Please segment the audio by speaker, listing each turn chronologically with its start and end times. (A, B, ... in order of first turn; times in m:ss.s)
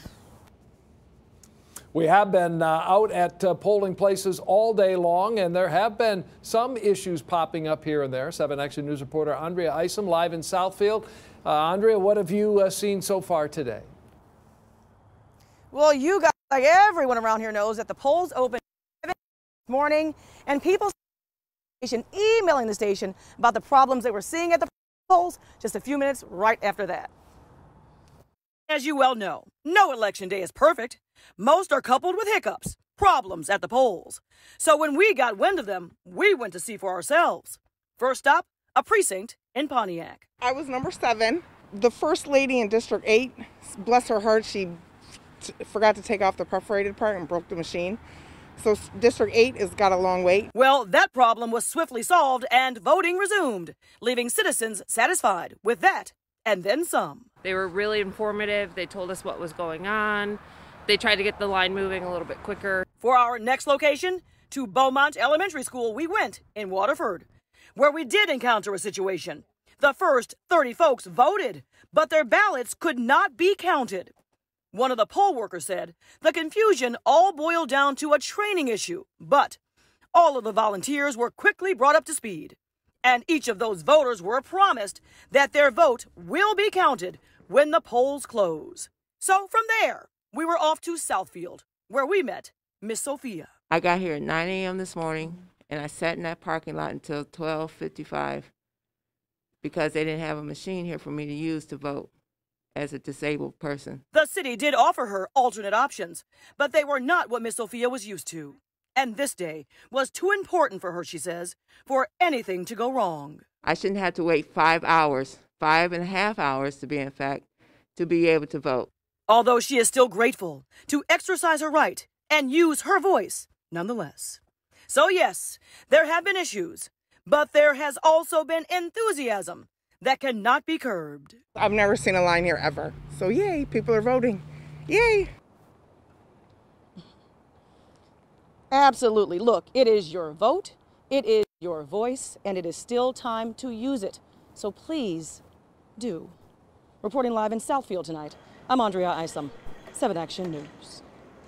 0:01.9-0:13.9 A
0:15.7-0:21.0 B
0:21.8-0:27.1 B
0:28.7-0:40.2 B
0:40.4-0:44.8 C
0:45.4-0:48.0 C
0:48.6-0:50.5 C
0:50.5-0:57.3 B
0:57.4-1:02.8 D
1:03.0-1:14.1 B
1:14.7-1:19.6 B
1:20.1-1:33.5 B
1:33.7-1:38.5 E
1:39.6-1:42.1 E
1:42.7-1:44.0 E
1:44.1-1:53.4 B
1:53.6-1:58.9 E
1:59.3-2:11.4 B
2:11.6-2:15.3 C
2:18.7-2:25.4 B
2:26.0-2:26.4 B
2:27.0-2:31.0 B